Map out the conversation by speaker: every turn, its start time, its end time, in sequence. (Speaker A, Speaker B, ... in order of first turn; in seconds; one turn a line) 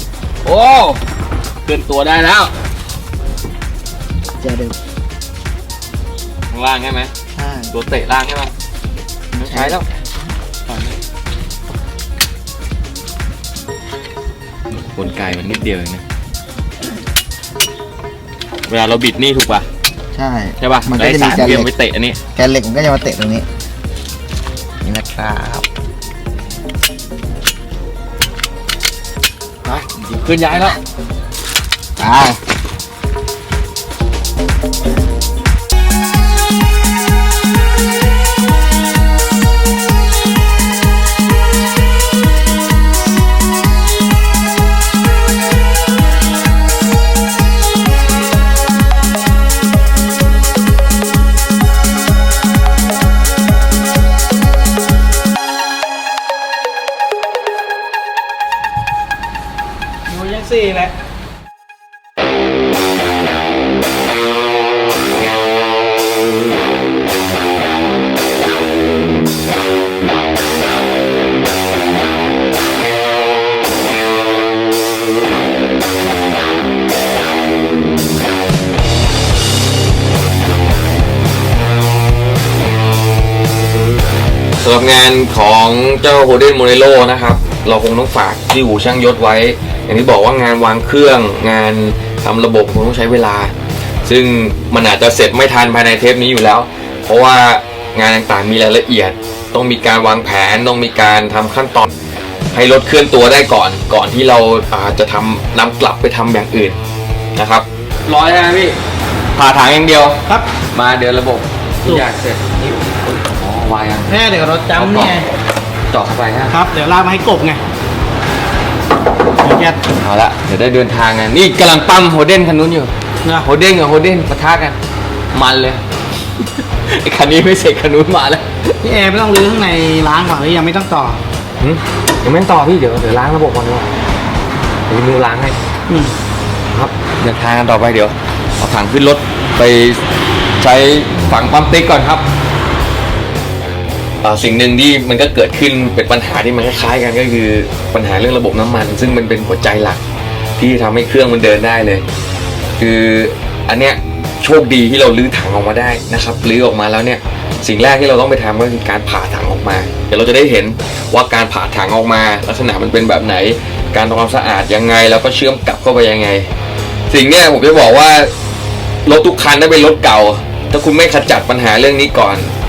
Speaker A: 0.4-1.0
Speaker A: 1.6-2.5
Speaker B: 4.4-4.8
Speaker A: 6.5-7.1
Speaker B: 7.4-7.7
Speaker A: 7.7-8.5
Speaker B: 9.3-9.8
Speaker A: 9.4-9.9
Speaker A: 14.7-16.0
Speaker A: 18.7-19.7
Speaker B: 20.1-21.7
Speaker A: 20.6-22.2
Speaker B: 22.3-23.5
Speaker B: 24.8-25.7
Speaker A: 29.7-30.8
Speaker B: 32.0-32.4
Speaker C: 60.1-60.9
Speaker A: 84.6-93.5
Speaker A: 94.0-101.9
Speaker A: 102.5-106.8
Speaker A: 107.4-108.8
Speaker A: 109.3-110.2
Speaker A: 110.7-112.5
Speaker A: 113.0-114.2
Speaker C: 114.1-115.3
Speaker A: 114.7-115.2
Speaker A: 115.9-116.6
Speaker C: 116.5-117.6
Speaker C: 119.4-119.8
Speaker A: 120.0-124.8
Speaker A: 125.3-125.8
Speaker A: 126.9-128.6
Speaker C: 128.8-131.2
Speaker A: 131.6-133.9
Speaker A: 134.9-135.6
Speaker C: 135.9-136.1
Speaker A: 136.7-140.0
Speaker A: 140.6-142.2
Speaker A: 144.2-150.0
Speaker A: 150.6-152.0
Speaker A: 152.8-166.5
Speaker A: 167.1-168.3
Speaker A: 169.0-172.5